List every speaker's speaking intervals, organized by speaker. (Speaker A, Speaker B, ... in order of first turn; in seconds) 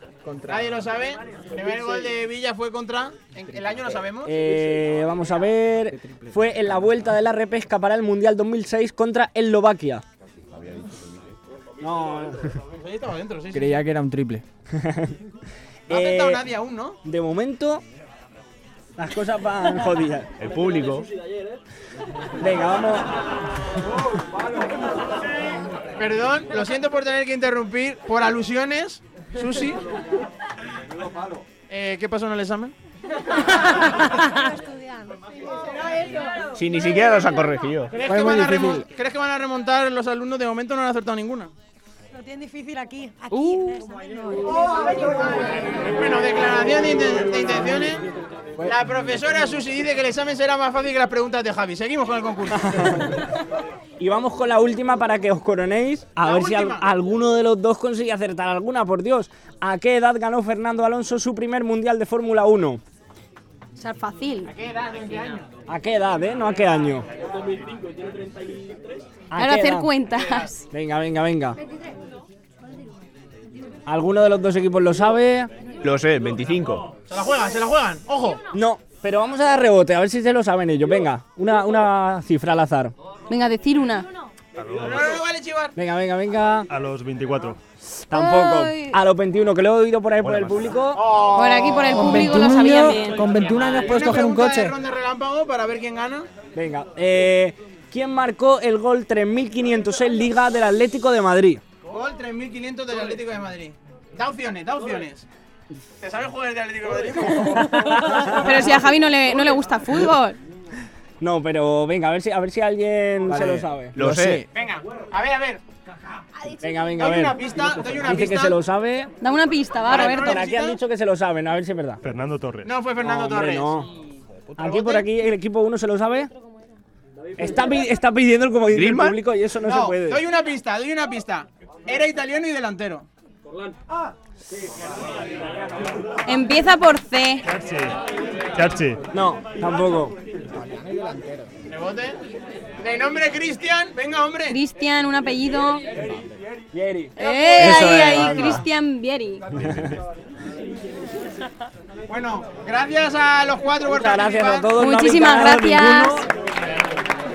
Speaker A: 0.5-4.4, 12.8-13.8, 15.9-17.0, 26.0-29.8, 31.7-32.7, 37.9-41.5, 45.7-48.0, 48.6-53.0, 56.2-56.8, 64.5-65.5, 77.0-78.4, 84.8-85.7, 93.7-96.3, 101.8-105.2, 106.0-108.4, 114.4-115.6, 117.0-118.5, 119.8-120.8, 122.6-123.8, 124.5-125.1, 129.6-133.1, 141.7-142.2, 142.8-144.6, 147.2-148.1, 152.1-154.7
Speaker B: 4.2-10.0, 11.8-12.5, 14.7-15.2, 15.9-16.4, 17.0-17.8, 19.0-20.3, 22.4-23.1, 38.1-38.8, 54.0-62.8, 65.7-67.0, 69.3-69.9, 70.7-71.6, 73.8-75.5, 78.5-82.9, 85.7-86.7, 88.1-91.1, 96.5-101.6, 111.2-114.4, 116.6-119.1, 119.9-122.0, 123.0-123.9, 124.6-126.3, 127.4-130.2, 139.1-140.2, 146.7-148.6, 149.6-149.9, 153.9-156.3
Speaker C: 10.5-11.3, 20.4-21.1, 36.5-37.9, 75.8-77.0, 113.3-114.4, 128.7-129.2
Speaker D: 13.5-14.4, 38.3-38.6, 91.7-94.7
Speaker E: 33.5-35.2, 35.7-36.6, 42.1-45.4
Speaker F: 63.8-64.5, 69.3-70.7, 83.3-84.1, 88.1-89.0, 91.3-93.3, 108.4-110.4, 119.2-120.4, 136.2-137.4, 144.5-145.9, 147.2-149.4, 154.8-156.3
Speaker G: 84.5-85.1, 86.7-87.6, 90.2-90.6, 122.0-122.8, 137.6-137.9, 138.5-139.0